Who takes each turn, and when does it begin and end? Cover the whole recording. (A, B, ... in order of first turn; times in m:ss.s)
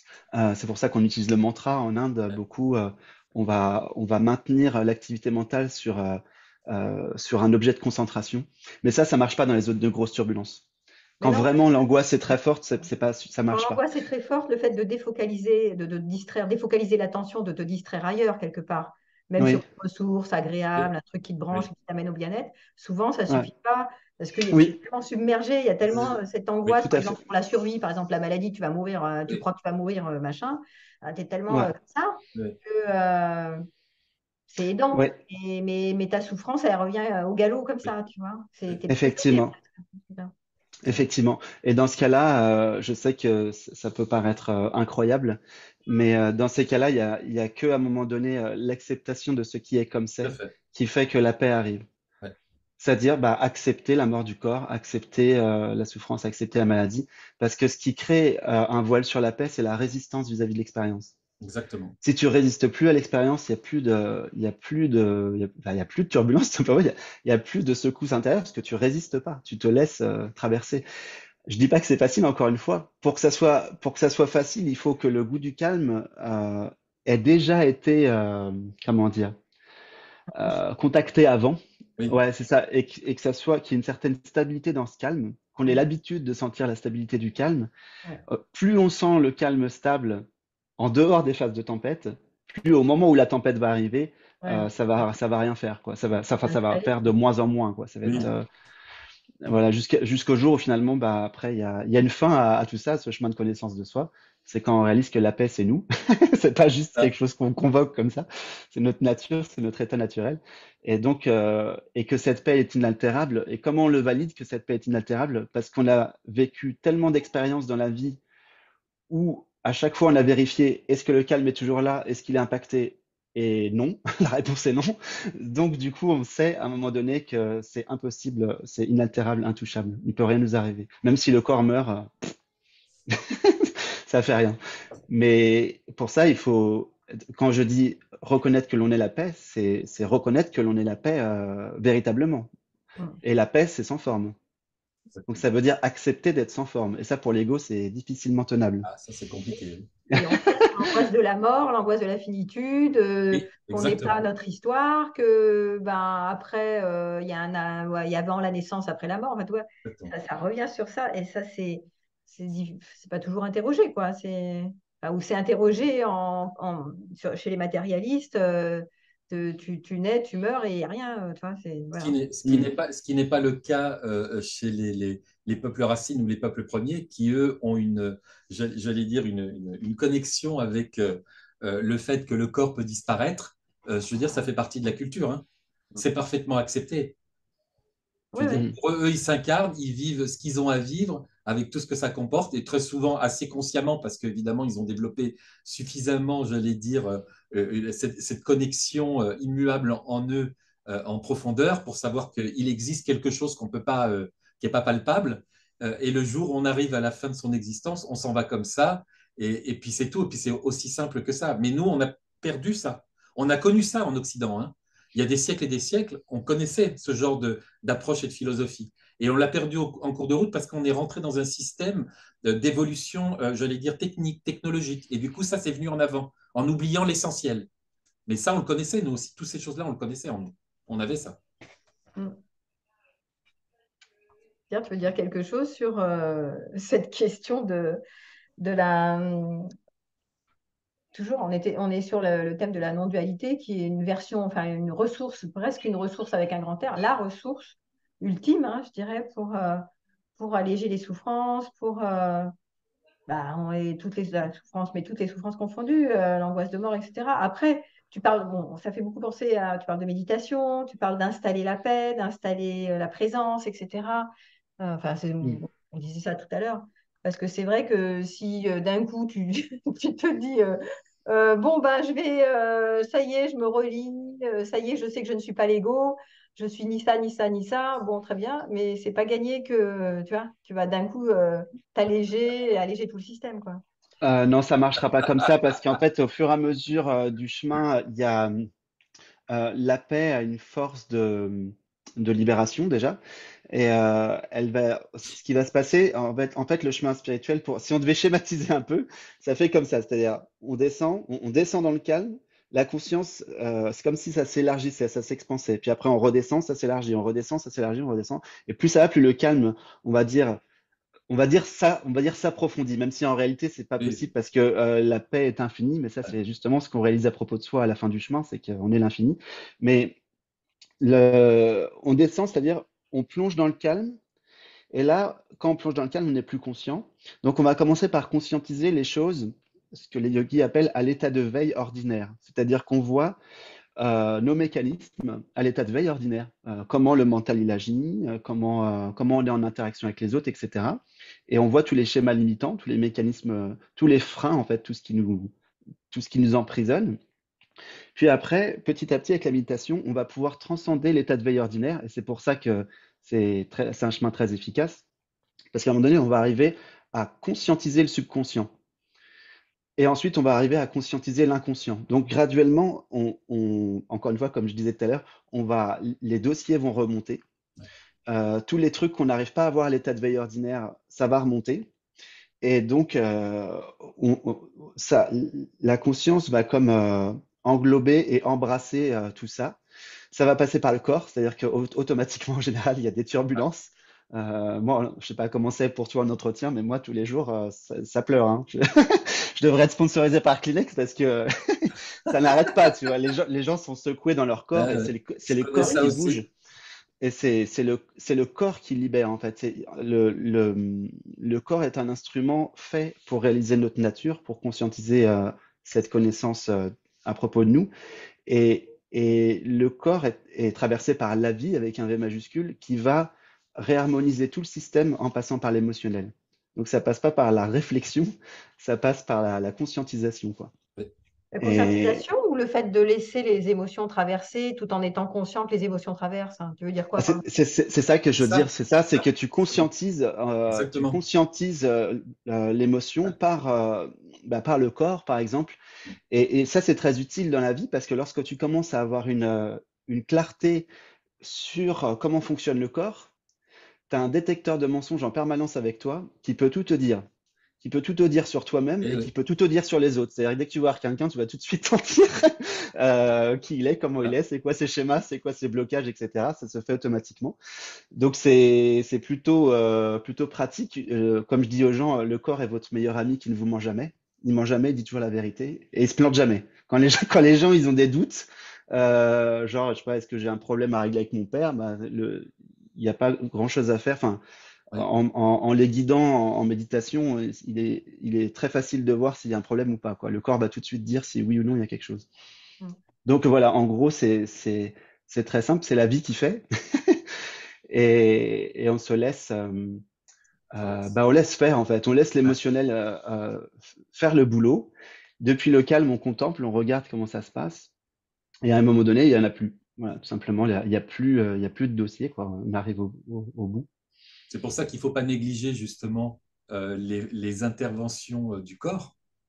0:00.3-0:10.6 A
0:11.2-0:11.6 B
0:11.2-0:13.8 A
0:13.5-0:33.6 B
0:25.9-0:27.2 A
0:34.5-0:40.3 B
0:38.9-0:39.5 A
0:40.8-0:51.8 A
0:50.2-0:50.5 C
0:52.8-1:01.1 A
1:01.4-1:01.9 C
1:02.0-1:10.8 A
1:11.5-1:19.4 A
1:20.3-1:21.6 A
1:22.1-1:27.7 A
1:28.3-1:30.2 A
1:30.8-1:38.4 A
1:34.4-1:34.7 B
1:36.4-1:36.9 B
1:39.4-1:58.2 A
1:59.1-2:12.3 A
2:13.1-2:14.6 A
2:15.1-2:22.5 A
2:23.2-2:24.4 A
2:25.1-2:25.4 C
2:25.3-2:28.9 A
2:28.8-2:29.9 C
2:30.1-2:30.7 A
2:30.1-2:52.6 B
2:33.3-2:34.2 C
2:39.8-2:40.1 C
2:52.0-3:05.4 C
3:05.9-3:07.1 C
3:08.3-3:08.6 B
3:08.4-3:47.7 C
3:48.3-3:51.4 C
3:54.7-3:58.0 B
3:58.6-3:59.7 B
4:01.1-4:12.5 B
4:13.3-4:43.8 B
4:44.2-4:48.6 A
4:49.5-4:53.2 A
4:53.7-5:10.6 A
5:11.3-5:20.2 A
5:21.0-5:24.2 A
5:24.9-5:33.4 A
5:34.0-5:45.5 A
5:46.1-5:47.2 A
5:48.1-5:55.0 A
5:55.7-5:58.7 A
6:00.0-6:07.4 A
6:08.3-6:11.9 A
6:12.6-6:19.8 A
6:20.3-6:36.5 A
6:34.7-6:36.4 C
6:37.2-6:47.9 A
6:48.4-7:00.7 A
7:01.5-7:07.4 B
7:01.6-7:02.2 A
7:07.2-7:15.8 A
7:08.4-7:08.7 C
7:10.7-7:11.2 C
7:16.3-7:20.9 A
7:21.4-7:23.3 A
7:24.1-7:27.2 A
7:27.8-7:37.6 A
7:29.0-7:29.3 C
7:38.1-7:54.4 A
7:54.9-8:02.3 A
8:03.2-8:07.2 A
8:07.9-8:10.0 A
8:10.7-8:17.9 A
8:18.6-8:23.9 A
8:24.5-8:29.1 C